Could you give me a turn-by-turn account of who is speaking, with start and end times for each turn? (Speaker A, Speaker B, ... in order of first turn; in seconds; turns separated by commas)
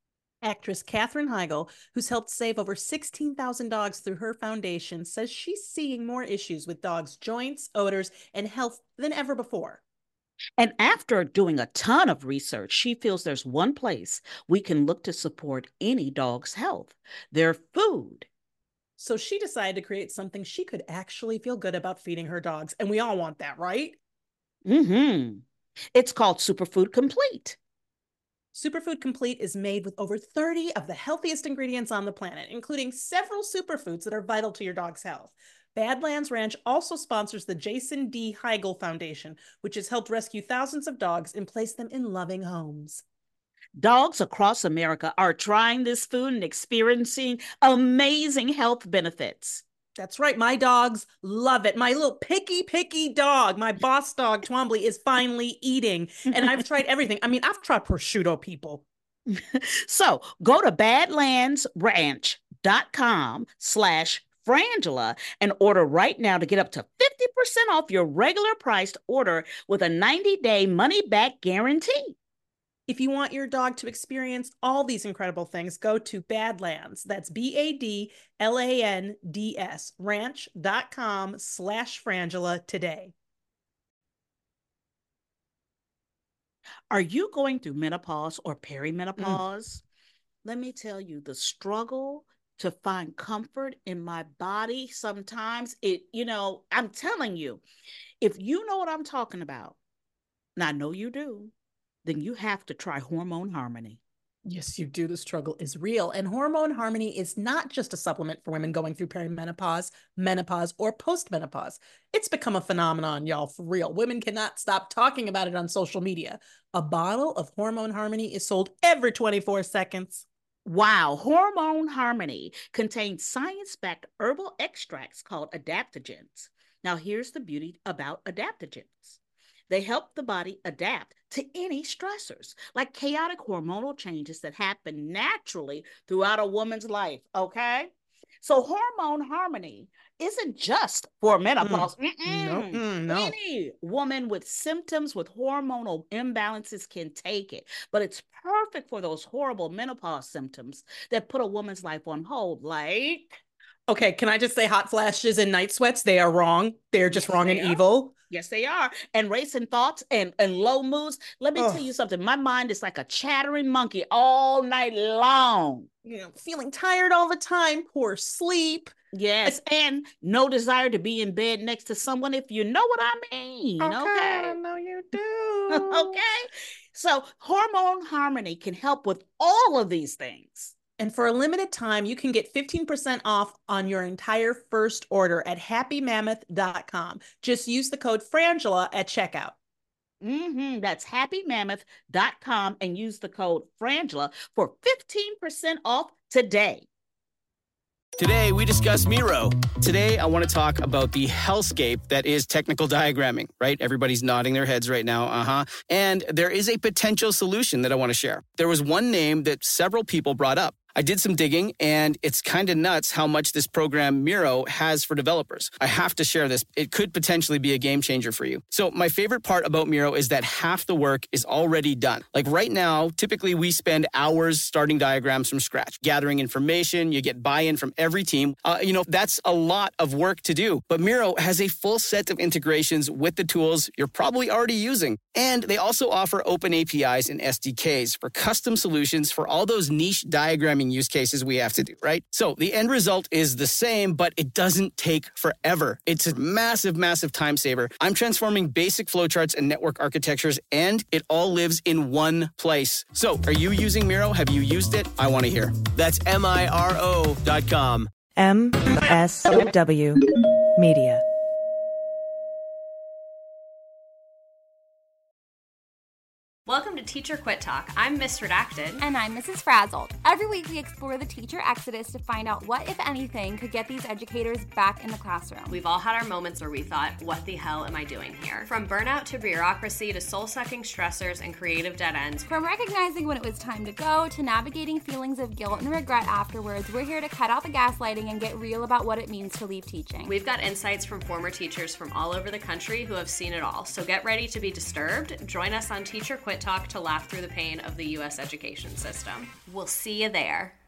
Speaker A: 0.4-9.8, Speaker B: 10.6-18.3, Speaker A: 19.0-24.0, Speaker B: 24.6-25.4, Speaker B: 25.9-27.6, Speaker A: 28.5-43.0, Speaker B: 43.8-49.6, Speaker A: 50.0-58.8, Speaker B: 59.3-72.1, Speaker A: 72.9-83.1, Speaker B: 86.9-89.8, Speaker B: 90.4-97.6, Speaker B: 98.2-99.8, Speaker B: 100.5-101.5, Speaker B: 102.0-104.0, Speaker A: 104.5-120.2, Speaker B: 120.6-129.2, Speaker B: 129.7-137.9, Speaker B: 138.4-153.4, Speaker A: 141.6-143.3, Speaker A: 153.9-158.1, Speaker B: 157.1-165.9, Speaker A: 161.6-161.8, Speaker A: 166.0-168.9, Speaker B: 169.1-174.6, Speaker A: 173.8-176.2, Speaker B: 175.7-180.7, Speaker A: 181.0-189.5, Speaker B: 190.2-196.8, Speaker C: 198.2-258.1, Speaker D: 258.4-261.2, Speaker E: 266.7-269.0, Speaker F: 269.0-275.8, Speaker E: 275.7-282.5, Speaker F: 282.4-290.3, Speaker E: 290.2-300.7